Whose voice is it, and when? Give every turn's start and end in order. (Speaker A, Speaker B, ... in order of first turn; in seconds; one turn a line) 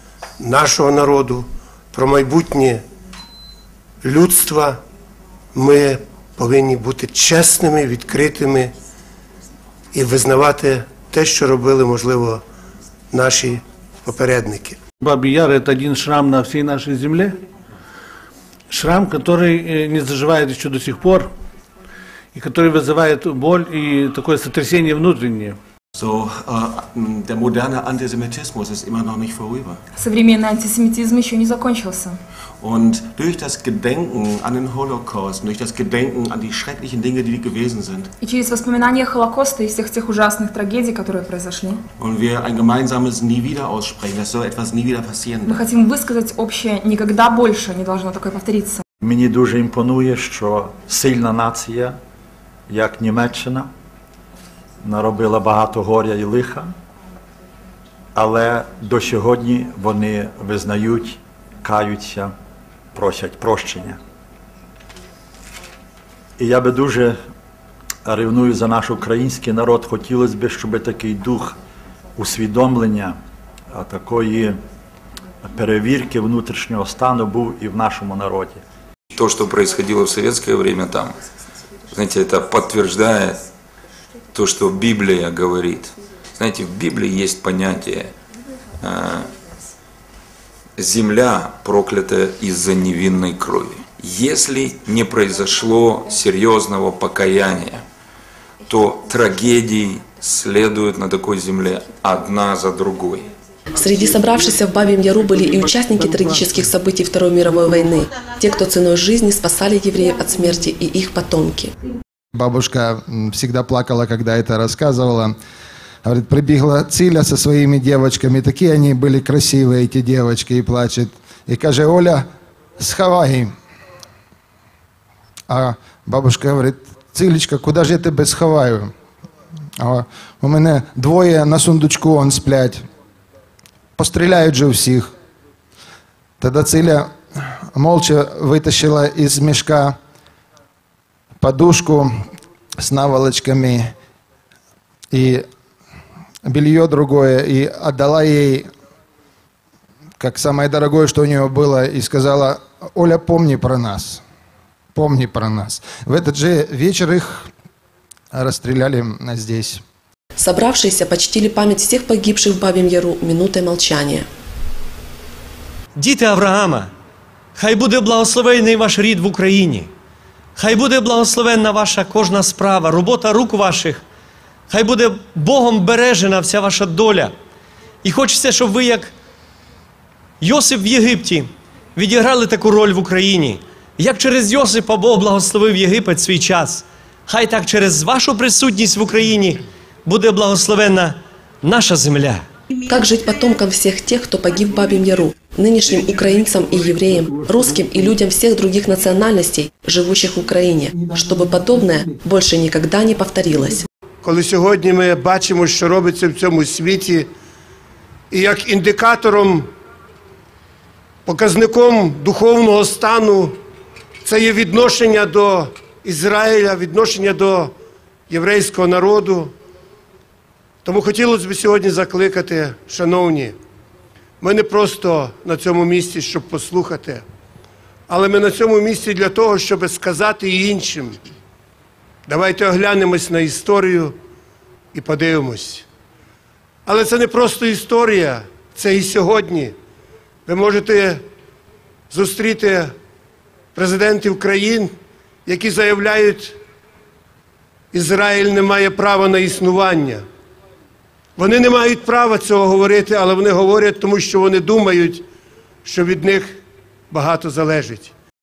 Speaker A: 0.4-2.8
Speaker A: 4.0-4.8
Speaker A: 5.5-8.7
Speaker A: 9.9-12.4
Speaker A: 13.1-14.8
Speaker B: 15.0-17.4
Speaker B: 18.7-21.3
Speaker B: 22.3-25.6
Speaker C: 26.0-29.7
Speaker D: 29.9-32.2
Speaker C: 32.6-38.0
Speaker D: 38.2-41.8
Speaker C: 42.0-45.4
Speaker D: 45.4-48.8
Speaker E: 49.0-52.0
Speaker E: 52.7-53.7
Speaker E: 54.8-56.7
Speaker E: 58.1-62.3
Speaker E: 62.9-64.0
Speaker E: 66.4-67.2
Speaker E: 68.0-71.6
Speaker E: 72.2-73.1
Speaker E: 73.7-74.6
Speaker E: 75.4-78.6
Speaker F: 79.1-81.2
Speaker F: 81.9-83.4
Speaker F: 84.3-88.1
Speaker F: 88.8-89.3
Speaker F: 90.8-97.8
Speaker F: 98.7-103.3
Speaker G: 103.7-111.7
Speaker H: 112.3-115.3
Speaker H: 116.0-122.2
Speaker H: 122.8-123.5
Speaker H: 125.5-128.9
Speaker H: 129.8-132.8
Speaker H: 134.0-135.1
Speaker H: 136.4-137.1
Speaker H: 137.7-139.9
Speaker H: 141.4-142.1
Speaker H: 142.8-143.9
Speaker H: 145.1-145.4
Speaker H: 146.4-148.7
Speaker H: 150.2-154.2
Speaker H: 154.9-157.5
Speaker H: 158.3-159.8
Speaker G: 160.4-164.2
Speaker I: 165.9-166.9
Speaker I: 167.6-169.9
Speaker I: 170.6-174.0
Speaker I: 174.7-177.3
Speaker I: 178.0-179.1
Speaker I: 180.4-192.4
Speaker G: 192.9-203.8
Speaker A: 204.2-207.3
Speaker A: 208.3-209.7
Speaker A: 211.2-213.5
Speaker A: 214.2-217.7
Speaker A: 218.3-219.5
Speaker A: 220.8-223.6
Speaker A: 224.4-227.2
Speaker A: 228.1-231.2
Speaker A: 232.3-234.1
Speaker A: 234.9-235.8
Speaker A: 236.8-239.7
Speaker A: 240.4-241.2
Speaker A: 242.1-242.9
Speaker A: 243.7-244.9
Speaker A: 245.4-246.6
Speaker A: 247.9-250.2
Speaker A: 251.4-255.2
Speaker A: 255.8-258.1